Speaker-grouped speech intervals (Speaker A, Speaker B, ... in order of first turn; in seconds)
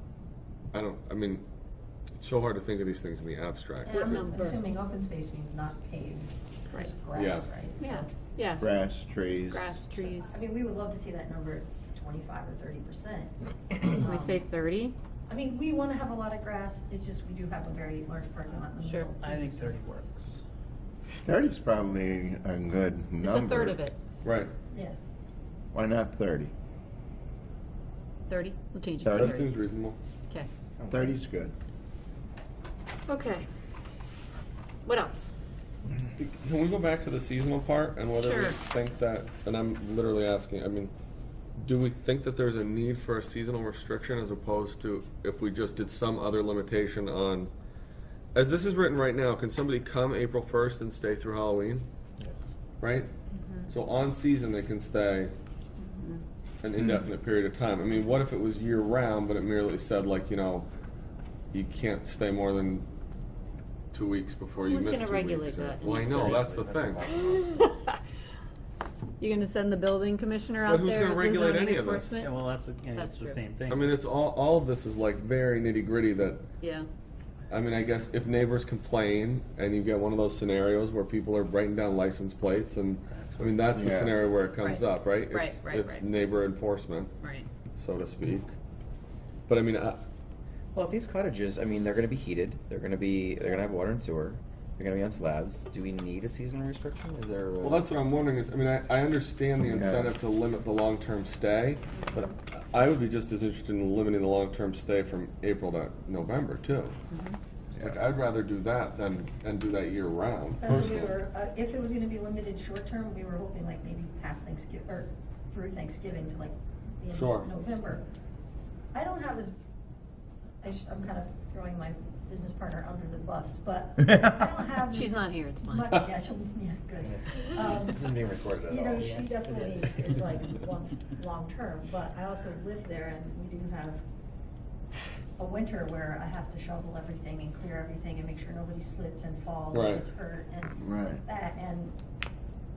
Speaker A: 0.7-1.4, 2.1-4.3, 7.1-7.5, 24.2-24.5, 29.1-30.0, 36.2-40.9, 41.6-47.5, 48.3-51.9, 52.8-53.1, 53.7-55.3, 56.6-60.7, 61.5-62.9, 63.9-67.1, 70.6-72.2, 73.7-76.5, 77.5-87.1, 87.8-88.5, 89.5-90.0, 97.6-107.0, 107.8-111.1, 117.1-117.5, 139.7-140.1
Speaker B: 3.8-8.1, 10.0-14.4, 15.3-19.8, 110.6-118.0, 118.9-119.5, 120.6-128.1, 128.6-134.0, 135.4-142.0
Speaker C: 3.9-4.6, 7.8-8.7, 9.5-10.4, 14.0-14.9, 18.8-19.1, 23.2-24.0, 28.3-29.5, 33.1-33.5, 34.8-35.3, 38.2-38.6, 53.3-53.7, 55.8-56.2, 64.6-66.7, 67.2-67.9, 69.2-72.3, 72.9-73.4, 76.6-76.9, 84.6-86.1, 107.1-107.3, 124.9-126.0
Speaker D: 8.6-9.8, 21.2-23.8, 25.7-26.5, 29.0-29.4, 30.9-31.5, 83.7-84.1, 99.7-100.1, 140.8-141.2
Speaker E: 19.2-20.4, 72.2-74.0, 83.1-84.0
Speaker F: 30.7-31.1, 66.3-67.4, 90.7-97.9, 127.7-129.8